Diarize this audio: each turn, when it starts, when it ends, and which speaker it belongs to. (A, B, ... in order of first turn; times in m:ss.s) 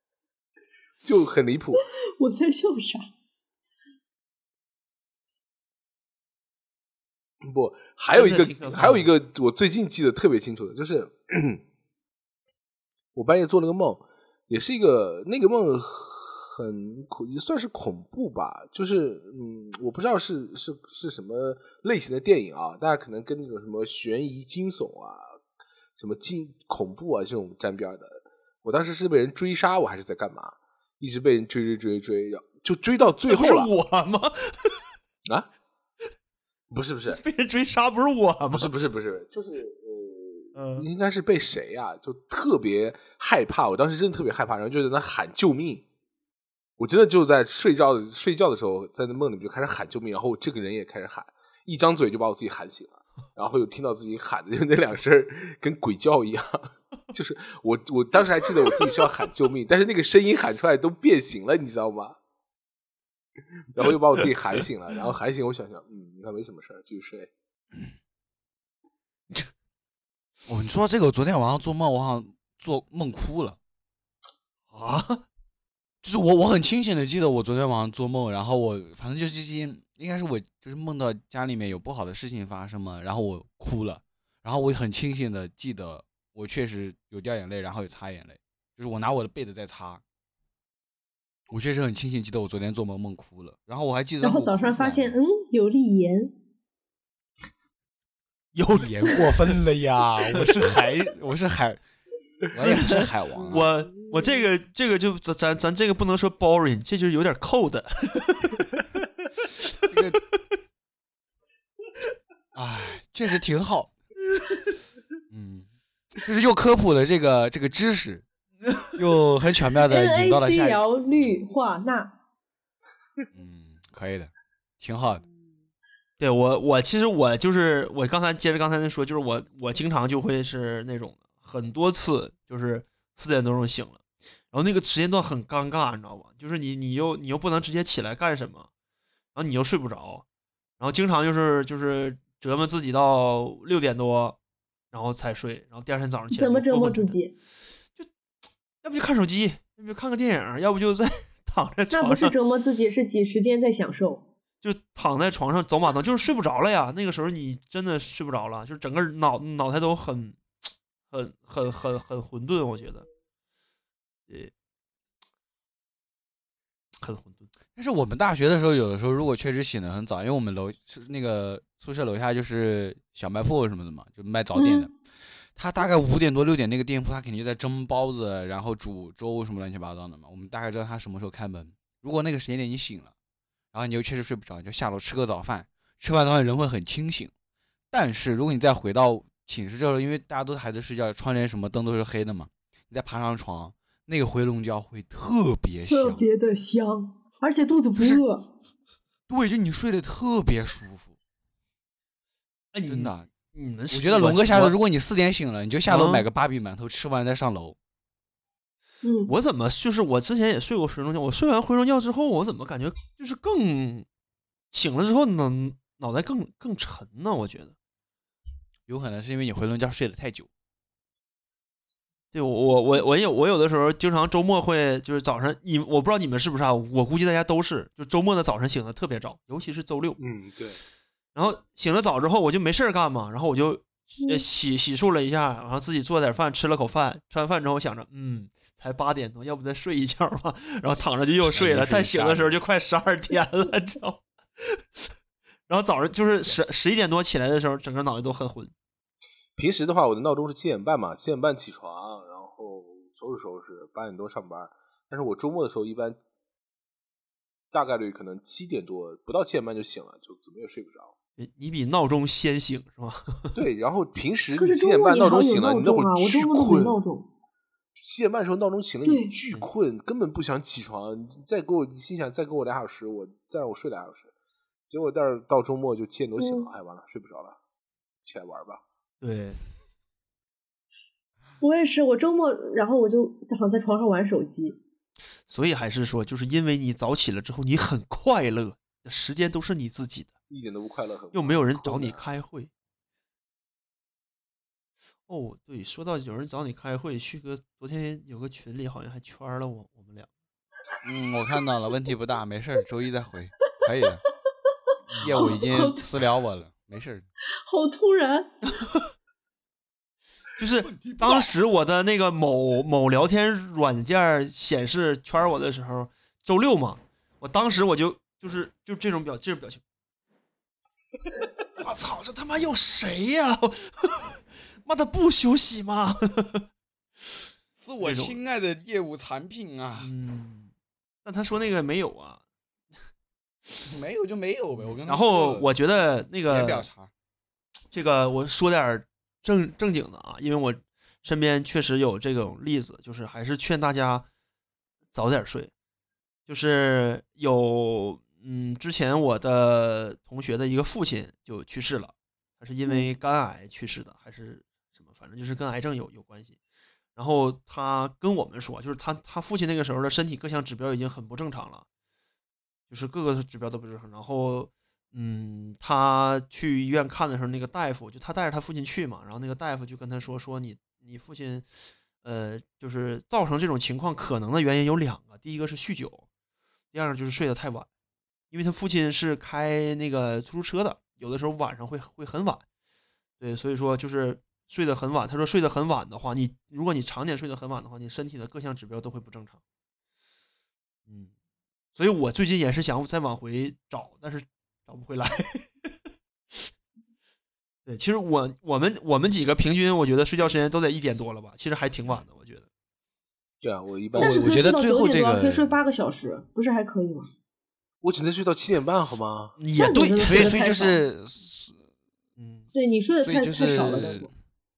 0:01.0-0:01.8 A
0:02.2-0:03.0 B
0:07.4-0:11.6 A
0:08.1-0:09.1 C
0:13.1-0:25.4 A
0:26.0-0:33.7 A
0:33.3-0:34.8 C
0:36.7-0:37.2 A
0:37.1-0:38.7 C
0:38.5-0:45.8 A
0:40.5-0:40.9 C
0:46.8-1:02.2 A
1:03.7-1:07.3 A
1:10.5-1:13.6 D
1:14.7-1:15.2 C
1:16.0-1:30.0 D
1:31.5-1:35.2 D
1:34.2-1:36.3 B
1:38.5-1:39.6 C
1:38.7-1:41.8 D
1:40.3-1:41.0 C
1:42.5-1:43.7 D
1:42.5-1:48.8 C
1:49.9-1:50.2 D
1:52.5-1:53.9 D
1:55.3-1:58.2 D
1:58.9-2:00.8 D
1:59.8-2:02.1 B
2:03.3-2:05.2 D
2:06.2-2:18.7 C
2:19.3-2:20.2 C
2:20.8-2:24.4 C
2:24.9-2:27.2 C
2:26.3-2:27.3 B
2:28.8-2:32.3 C
2:31.9-2:34.2 B
2:34.6-2:40.4 C
2:41.1-2:43.1 C
2:47.0-2:47.5 C
2:47.8-2:54.9 D
2:54.5-2:54.9 B
2:55.5-3:03.1 D
3:03.7-3:07.3 D
3:07.9-3:16.2 D
3:15.9-3:18.5 B
3:18.0-3:18.2 D
3:19.3-3:21.1 D
3:22.7-3:24.7 C
3:22.9-3:23.3 D
3:23.9-3:27.8 D
3:25.9-3:26.2 C
3:29.0-3:29.3 B
3:29.2-3:34.0 C
3:34.7-3:37.7 C
3:38.9-3:40.5 D
3:42.3-3:50.2 C
3:50.2-3:50.8 A
3:51.3-4:05.1 C
4:01.5-4:02.6 D
4:05.7-4:08.7 C
4:09.6-4:16.2 A
4:17.7-4:21.1 A
4:21.4-4:23.5 C
4:23.5-4:27.0 A
4:24.6-4:27.3 B
4:28.0-4:34.3 A
4:29.0-4:29.3 B
4:34.9-4:37.6 A
4:36.4-4:36.7 B
4:38.2-4:38.8 A
4:39.2-4:39.6 C
4:41.6-4:44.8 B
4:45.5-4:50.3 C
4:50.5-4:52.2 A
4:51.3-4:52.7 C
4:55.3-5:00.3 C
5:01.0-5:04.2 D
5:05.1-5:05.5 C
5:05.2-5:07.2 D
5:05.3-5:06.1 B
5:07.7-5:08.5 B
5:10.6-5:19.8 C
5:10.9-5:11.5 D
5:21.8-5:26.6 C
5:27.8-5:30.1 D
5:28.0-5:28.4 C
5:30.0-5:30.7 C
5:31.2-5:32.4 C
5:33.8-5:35.7 D
5:35.0-5:36.9 C
5:36.5-5:37.1 D
5:37.9-5:44.2 C
5:45.1-5:45.7 C
5:46.5-5:56.6 C
5:57.2-6:01.8 C
6:02.9-6:11.7 C
6:12.2-6:16.2 C
6:16.9-6:17.9 C
6:18.5-6:22.6 C
6:23.4-6:29.6 C
6:31.1-6:31.3 C
6:32.0-6:35.8 C
6:37.8-6:42.6 C
6:43.6-6:44.5 A
6:44.1-6:47.3 B
6:44.2-6:45.7 D
6:48.0-6:49.5 A
6:49.6-6:50.6 C
6:49.8-6:51.0 B
6:50.2-6:51.8 D
6:52.4-6:52.7 C
6:52.7-6:54.3 B
6:53.2-6:54.3 D